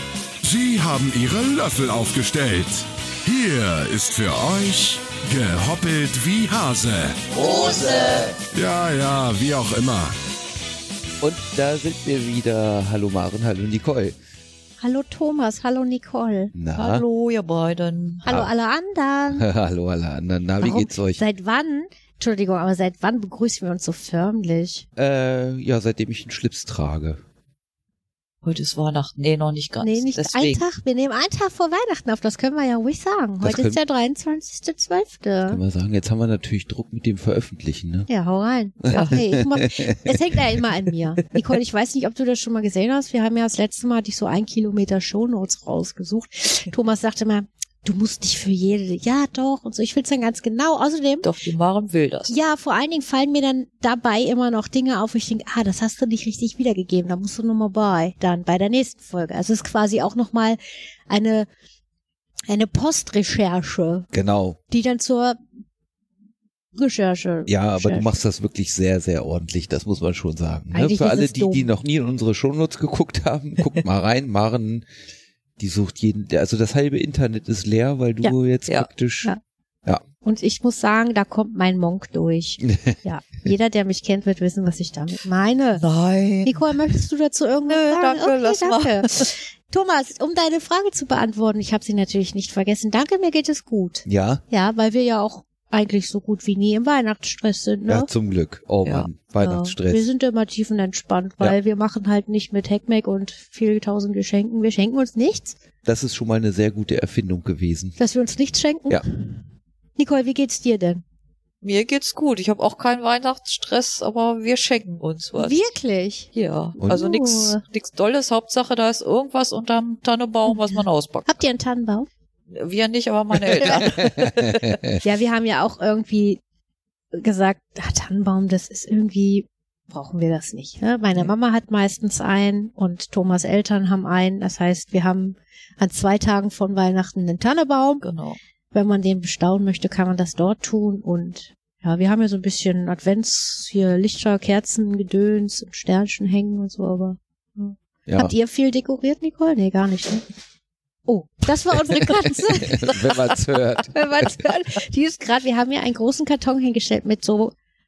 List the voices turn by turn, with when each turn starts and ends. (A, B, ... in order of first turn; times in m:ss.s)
0:00.4-0:07.2 A
0:07.6-0:08.1 B
0:08.5-0:10.2 A
0:11.2-0:14.2 B
0:14.8-0:16.6 C
0:16.5-0:17.0 B
0:16.8-0:18.3 D
0:18.2-0:19.5 C
0:19.3-0:21.2 B
0:20.6-0:24.9 C
0:25.0-0:27.2 B
0:28.4-0:30.6 D
0:29.8-0:35.6 C
0:33.4-0:33.8 B
0:35.5-0:38.1 B
0:38.1-0:51.3 C
0:38.8-0:40.4 B
0:38.9-0:39.2 D
0:51.2-0:52.3 D
0:52.3-1:01.5 C
1:02.5-1:04.1 C
1:04.1-1:04.6 B
1:04.7-1:05.4 C
1:06.8-1:08.2 C
1:07.5-1:14.9 B
1:10.7-1:11.7 C
1:15.6-1:19.3 B
1:20.2-1:25.8 C
1:22.6-1:23.0 B
1:25.8-1:26.8 D
1:26.4-1:38.1 C
1:27.7-1:29.3 D
1:34.1-1:34.4 B
1:37.9-1:40.1 B
1:38.8-1:39.1 D
1:39.4-1:45.6 C
1:45.8-1:48.0 B
1:48.0-1:49.4 C
1:50.0-1:51.0 C
1:51.6-1:55.6 D
1:55.4-1:56.3 C
1:56.3-2:01.4 D
1:56.8-1:57.6 C
2:00.5-2:00.8 C
2:01.3-2:02.1 C
2:02.5-2:04.8 D
2:03.6-2:03.9 C
2:03.8-2:05.0 B
2:05.0-2:06.4 C
2:07.2-2:18.0 C
2:18.0-2:18.4 D
2:18.7-2:30.2 C
2:28.1-2:28.3 B
2:31.1-2:33.2 C
2:32.0-2:34.4 B
2:33.9-2:37.5 C